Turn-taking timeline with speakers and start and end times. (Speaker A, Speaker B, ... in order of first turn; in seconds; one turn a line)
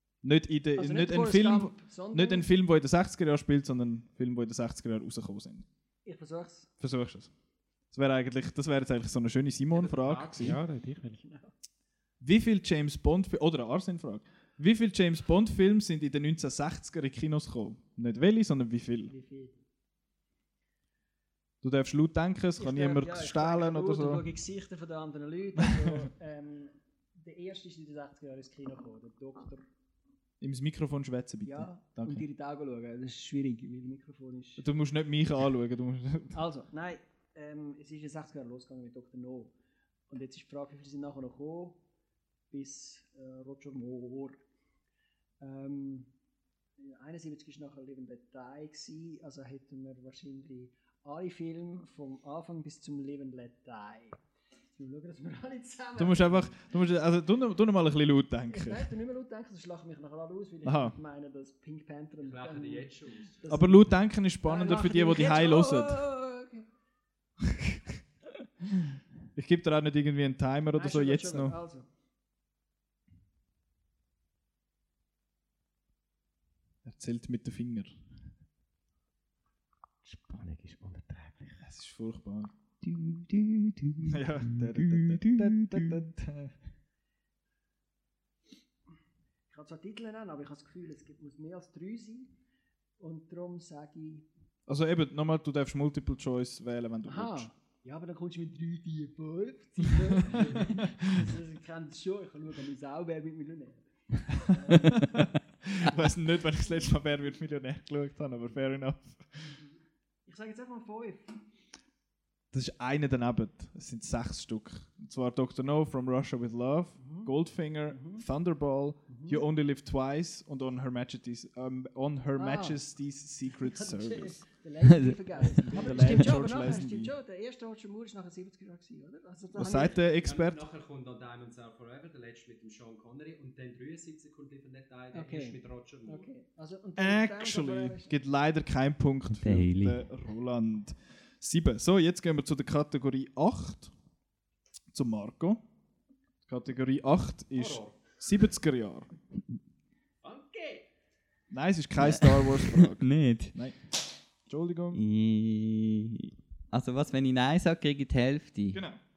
Speaker A: 0.2-5.7
Speaker B: 0.7-2.5
Speaker B: 6.0-6.7
Speaker A: 6.8-7.3
Speaker A: 7.9-10.6
Speaker C: 9.7-10.6
Speaker D: 10.4-11.2
Speaker B: 11.2-11.5
Speaker A: 12.2-19.1
Speaker B: 19.1-19.6
Speaker A: 21.6-24.2
Speaker B: 22.6-29.6
Speaker A: 30.4-32.2
Speaker B: 31.4-34.7
Speaker A: 34.6-36.4
Speaker B: 36.3-39.5
Speaker B: 40.1-41.8
Speaker B: 42.5-44.4
Speaker B: 45.4-46.1
Speaker B: 46.8-54.2
Speaker B: 54.7-56.5
Speaker A: 56.0-58.9
Speaker B: 58.5-63.9
Speaker A: 60.6-61.0
Speaker C: 62.2-63.4
Speaker A: 63.5-66.0
Speaker B: 64.4-66.7
Speaker A: 67.6-68.0
Speaker A: 69.3-71.6
Speaker B: 70.7-71.8
Speaker A: 76.8-78.0
Speaker D: 80.0-81.6
Speaker A: 81.6-82.5
Speaker E: 82.8-86.0
Speaker A: 84.0-86.5
Speaker B: 89.5-92.3
Speaker B: 93.0-94.3
Speaker A: 94.7-97.5
Speaker B: 97.0-105.1
Speaker C: 100.2-100.6
Speaker A: 105.8-109.6
Speaker B: 110.2-111.4
Speaker A: 112.5-124.5
Speaker B: 117.0-117.3
Speaker B: 117.9-118.2
Speaker B: 119.1-119.4
Speaker B: 122.4-122.8
Speaker B: 123.7-130.0
Speaker E: 124.8-126.3
Speaker A: 125.4-127.1
Speaker A: 129.5-130.6
Speaker C: 130.2-136.3
Speaker B: 135.1-138.2
Speaker A: 137.0-143.9
Speaker E: 139.3-140.1
Speaker A: 144.9-145.6
Speaker A: 146.4-149.1
Speaker C: 147.6-148.0
Speaker C: 150.2-150.8
Speaker A: 151.5-153.9
Speaker E: 152.1-153.6
Speaker A: 154.4-155.0
Speaker E: 154.9-158.8
Speaker A: 158.7-159.0